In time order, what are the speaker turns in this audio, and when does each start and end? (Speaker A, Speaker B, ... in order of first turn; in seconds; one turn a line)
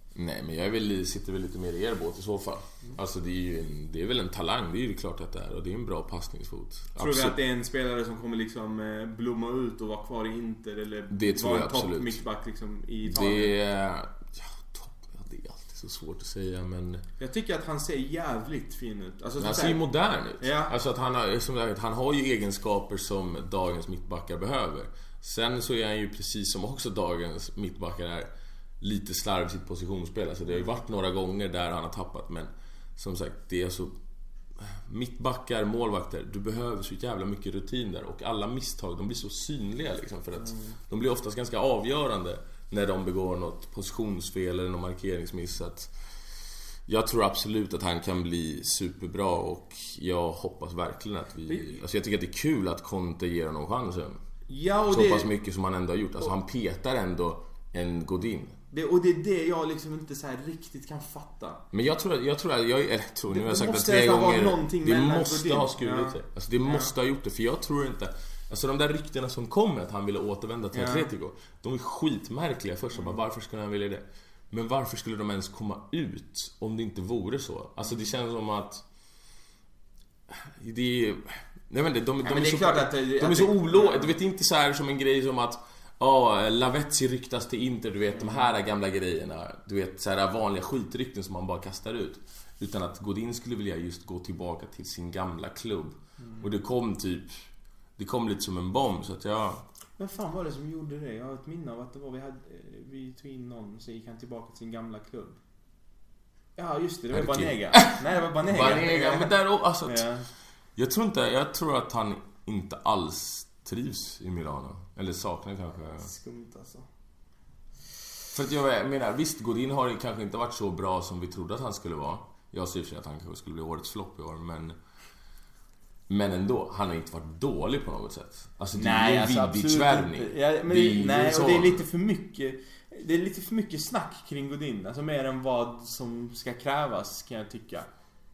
Speaker A: 0.1-7.4
Speaker B: 7.0-13.5
Speaker A: 11.1-12.2
Speaker A: 13.0-17.0
Speaker B: 17.2-19.8
Speaker A: 19.4-28.3
Speaker B: 20.4-20.7
Speaker A: 28.8-33.9
Speaker A: 34.6-45.9
Speaker A: 46.9-54.2
Speaker B: 51.5-51.8
Speaker B: 54.5-55.3
Speaker A: 54.9-58.6
Speaker B: 58.7-61.6
Speaker A: 61.7-78.8
Speaker B: 63.3-66.9
Speaker B: 70.7-71.1
Speaker A: 80.3-97.4
Speaker B: 82.2-84.2
Speaker B: 88.2-88.5
Speaker B: 96.2-96.5
Speaker A: 98.0-99.6
Speaker B: 100.0-105.4
Speaker B: 106.6-109.3
Speaker A: 107.1-110.1
Speaker B: 109.8-110.3
Speaker A: 110.8-116.1
Speaker B: 116.0-116.9
Speaker A: 118.3-124.8
Speaker A: 126.1-131.8
Speaker B: 128.8-137.9